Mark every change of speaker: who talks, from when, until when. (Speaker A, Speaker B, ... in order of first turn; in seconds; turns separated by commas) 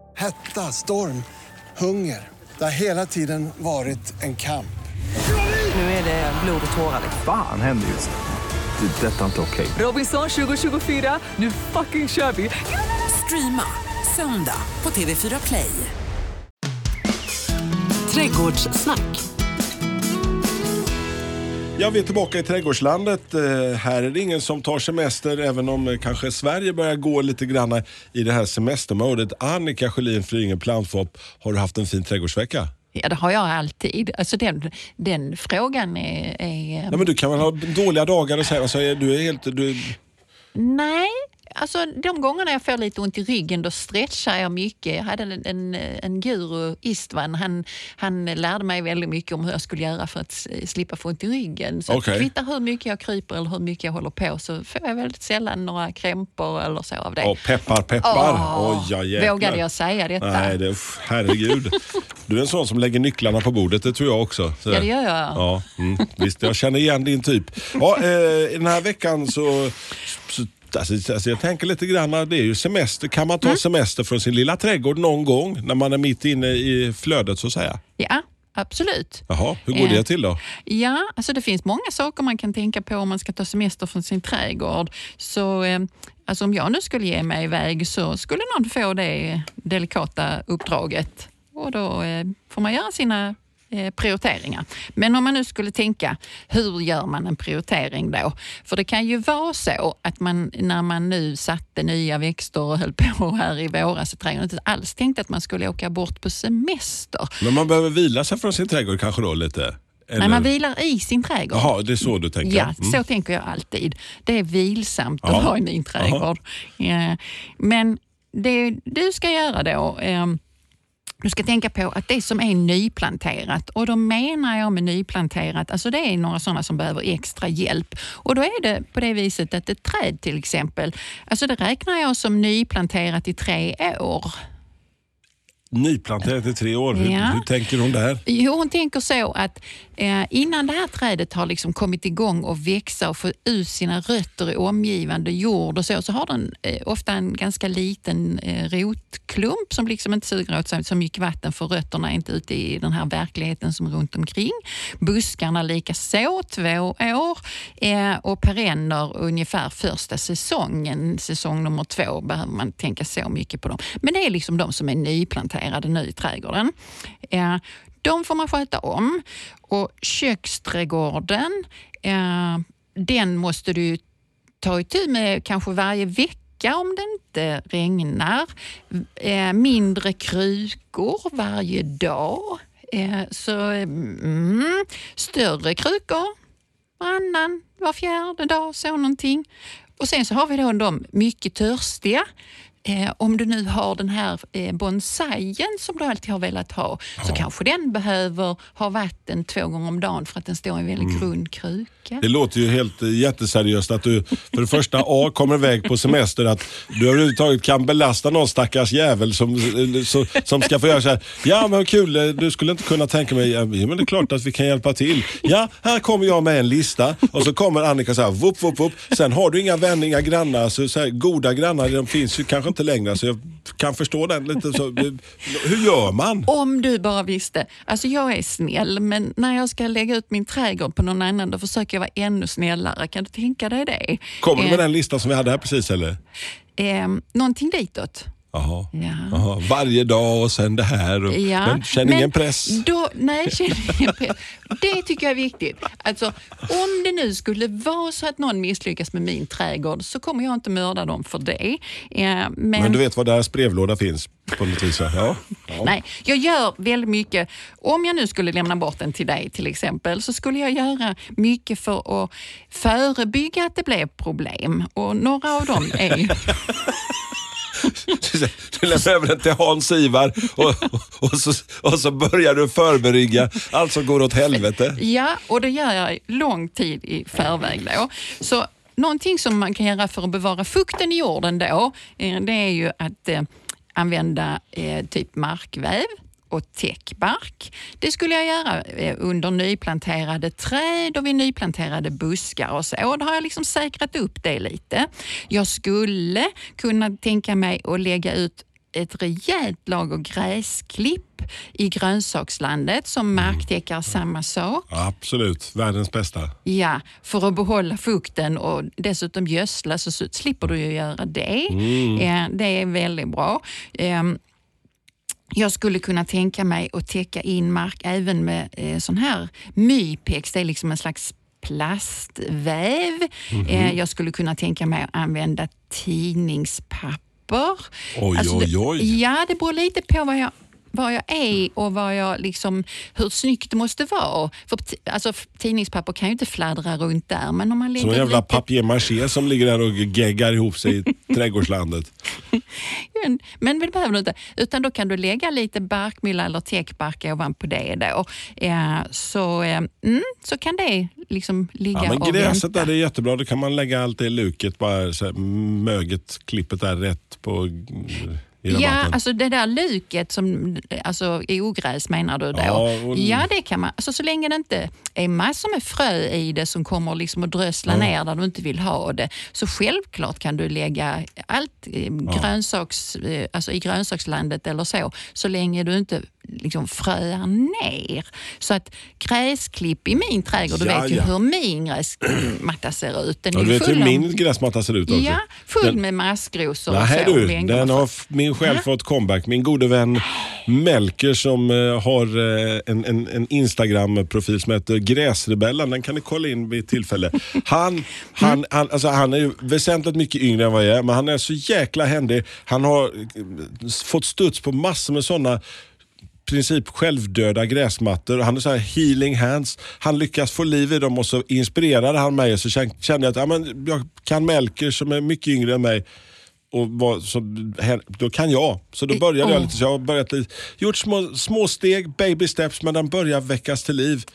Speaker A: 0.2-1.2, Speaker A: 1.8-4.8, Speaker B: 5.7-7.2, Speaker C: 6.8-8.1, Speaker C: 8.8-9.8, Speaker B: 9.8-15.9, Speaker B: 18.1-19.1, Speaker D: 21.8-32.7, Speaker E: 33.0-37.0, Speaker D: 36.9-40.0, Speaker E: 40.5-57.3, Speaker D: 51.9-52.3, Speaker D: 57.2-59.6, Speaker E: 58.0-60.6, Speaker D: 60.2-77.8, Speaker E: 64.7-65.5, Speaker E: 78.0-80.0, Speaker D: 79.3-80.4, Speaker E: 80.6-107.4, Speaker D: 107.4-110.5, Speaker E: 110.2-111.7, Speaker D: 111.5-113.0, Speaker E: 112.4-120.4, Speaker D: 115.2-116.2, Speaker E: 121.2-134.4, Speaker D: 135.7-138.2, Speaker E: 136.9-137.4, Speaker E: 138.3-166.7, Speaker E: 167.3-174.0, Speaker E: 174.6-186.3, Speaker E: 187.0-189.5, Speaker E: 190.0-192.3, Speaker E: 192.8-202.2, Speaker D: 197.2-197.4, Speaker D: 201.0-201.3, Speaker D: 202.2-226.5, Speaker E: 226.5-234.8, Speaker D: 234.4-236.2, Speaker E: 236.8-238.3, Speaker D: 238.5-242.8, Speaker E: 238.9-239.4, Speaker E: 241.3-253.0, Speaker D: 252.8-255.9, Speaker E: 255.8-266.6, Speaker D: 265.8-266.9, Speaker D: 267.8-275.0, Speaker E: 274.9-304.9, Speaker D: 303.4-303.6, Speaker D: 304.9-306.6, Speaker E: 306.6-314.4, Speaker D: 311.7-312.3, Speaker E: 315.5-338.6, Speaker D: 323.5-324.0, Speaker D: 328.1-329.2, Speaker D: 338.0-342.1, Speaker E: 342.8-352.9, Speaker D: 351.9-359.2, Speaker E: 358.7-384.3, Speaker D: 362.5-363.5, Speaker D: 380.7-381.3, Speaker D: 383.5-386.0, Speaker E: 385.1-388.1, Speaker D: 386.9-405.6, Speaker E: 388.6-388.9, Speaker D: 406.5-416.0, Speaker D: 416.7-424.3, Speaker E: 419.1-419.7